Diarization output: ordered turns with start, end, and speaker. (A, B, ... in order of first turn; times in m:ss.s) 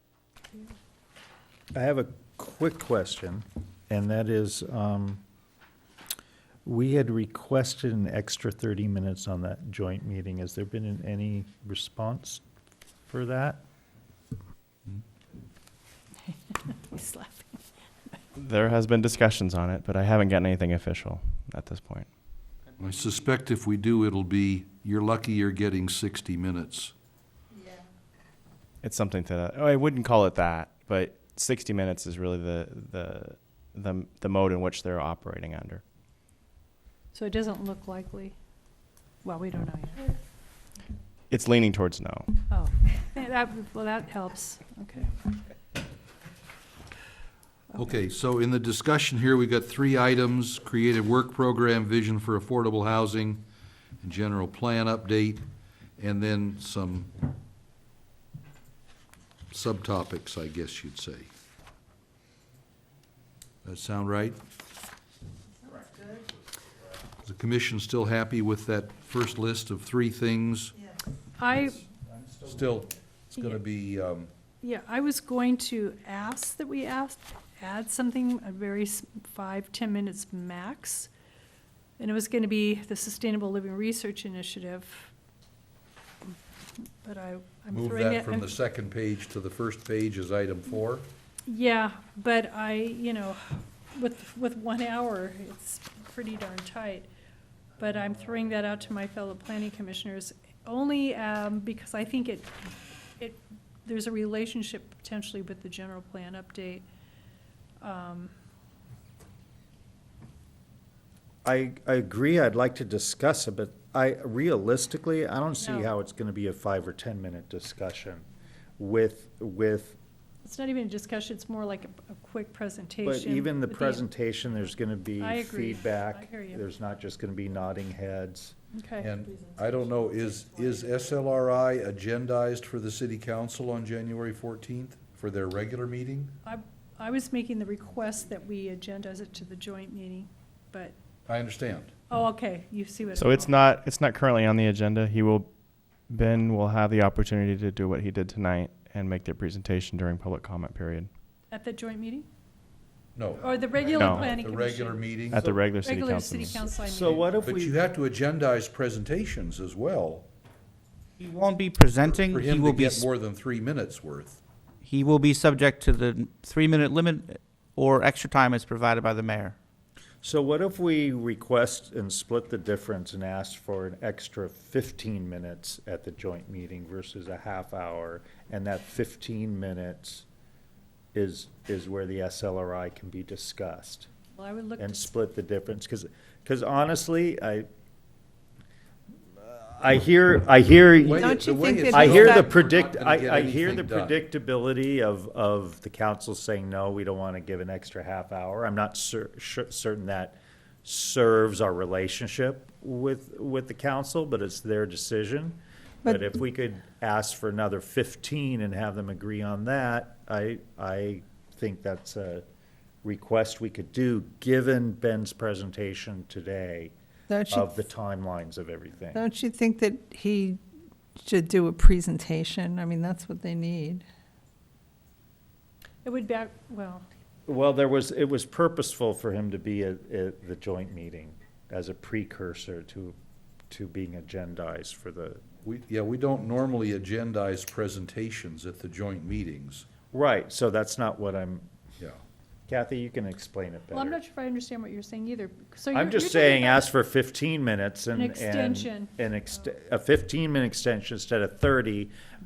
0:01.7-0:05.2 A
0:06.6-0:12.4 A
0:13.1-0:13.6 A
0:16.6-0:17.6 B
0:18.4-0:22.1 C
0:22.8-0:26.9 D
0:28.8-0:35.8 C
0:37.1-0:38.4 B
0:39.2-0:40.1 B
0:41.3-0:42.4 C
0:42.5-0:45.1 B
0:47.8-0:53.4 D
0:54.0-0:55.4 D
0:56.0-0:57.1 D
0:59.5-1:01.3 D
1:03.6-1:04.4 D
1:07.2-1:10.7 D
1:11.4-1:11.8 B
1:12.4-1:14.3 D
1:14.6-1:21.1 B
1:22.0-1:25.1 B
1:27.0-1:28.5 B
1:27.7-1:31.1 D
1:31.5-1:37.1 B
1:37.8-1:42.5 B
1:43.2-1:46.8 B
1:47.8-1:48.3 B
1:51.4-1:58.2 A
1:55.6-1:55.9 B
1:58.8-2:00.0 A
2:00.4-2:04.0 B
2:03.0-2:08.5 A
2:05.2-2:06.6 B
2:08.7-2:09.1 B
2:09.0-2:16.3 D
2:16.4-2:20.9 B
2:21.3-2:21.9 D
2:22.1-2:23.6 B
2:23.2-2:25.5 C
2:26.1-2:31.1 C
2:31.5-2:32.3 B
2:33.2-2:35.5 D
2:33.4-2:37.3 B
2:33.9-2:34.3 C
2:35.3-2:36.6 C
2:36.8-2:37.8 A
2:37.4-2:40.3 D
2:41.2-2:43.1 E
2:42.0-2:44.4 D
2:44.8-2:49.5 E
2:50.2-3:00.2 A
3:01.1-3:04.1 A
3:04.3-3:05.0 B
3:04.8-3:07.7 A
3:09.4-3:32.4 A
3:11.0-3:14.2 D
3:11.2-3:12.7 F
3:33.0-3:36.9 A
3:37.3-3:37.7 F
3:37.5-3:39.2 A
3:39.1-3:40.6 F
3:41.2-3:44.0 F
3:46.0-3:47.0 B
3:47.5-3:53.1 A
3:53.7-3:55.4 A
3:55.6-3:59.9 D
4:00.1-4:01.7 A
4:02.7-4:04.2 A
4:03.9-4:06.8 B
4:05.9-4:12.1 A
4:08.1-4:09.1 B